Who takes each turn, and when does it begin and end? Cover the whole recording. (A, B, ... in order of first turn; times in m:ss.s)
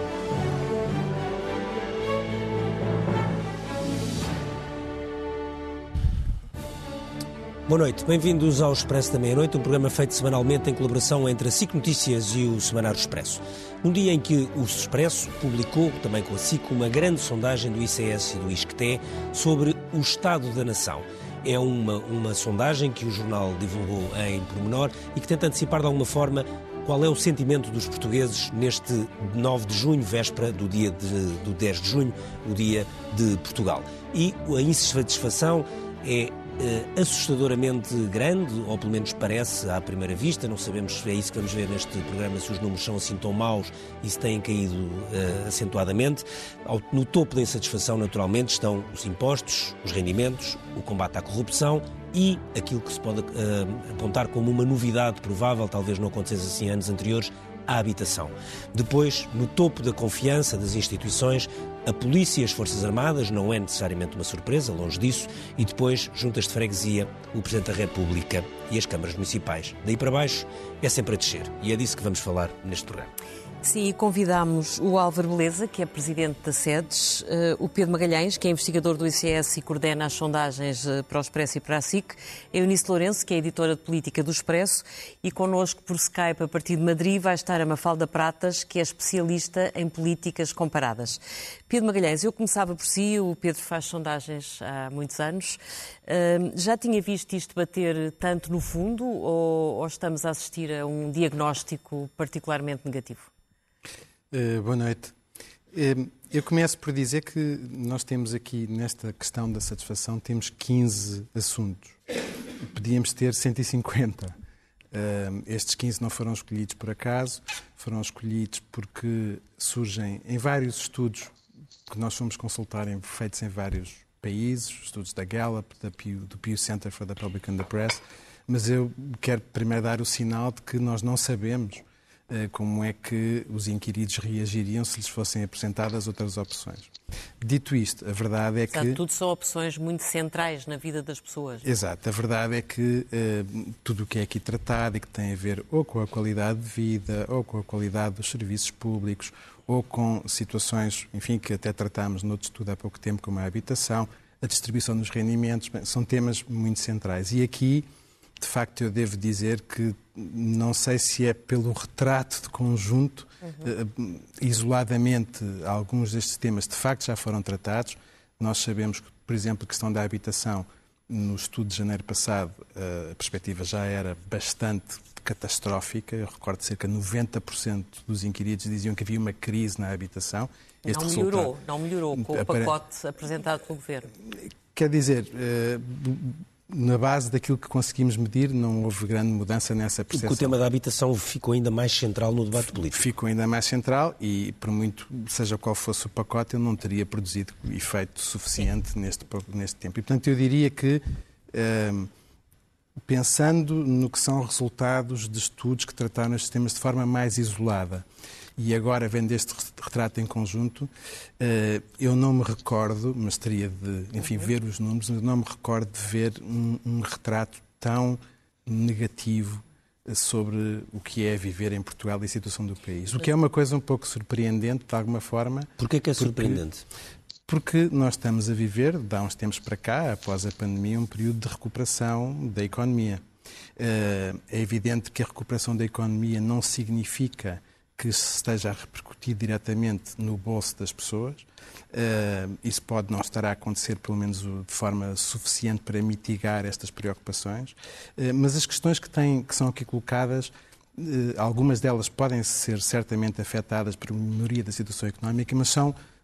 0:07.7-1:13.1 A
1:13.6-1:43.3 B
1:44.3-1:45.2 C
1:45.7-1:52.0 C
1:52.7-1:54.4 C
1:54.9-2:01.3 C
2:01.9-2:19.0 C
2:18.7-2:21.7 B
2:21.6-2:37.9 C
2:38.4-3:01.5 C
3:00.9-3:04.1 B
3:02.1-3:02.7 C
3:04.1-3:10.6 C
3:10.1-3:13.0 A
3:12.7-3:22.1 C
3:23.1-3:28.1 C
3:28.6-3:46.6 C
3:45.8-3:46.8 A
3:47.5-3:53.2 C
3:53.8-4:16.0 C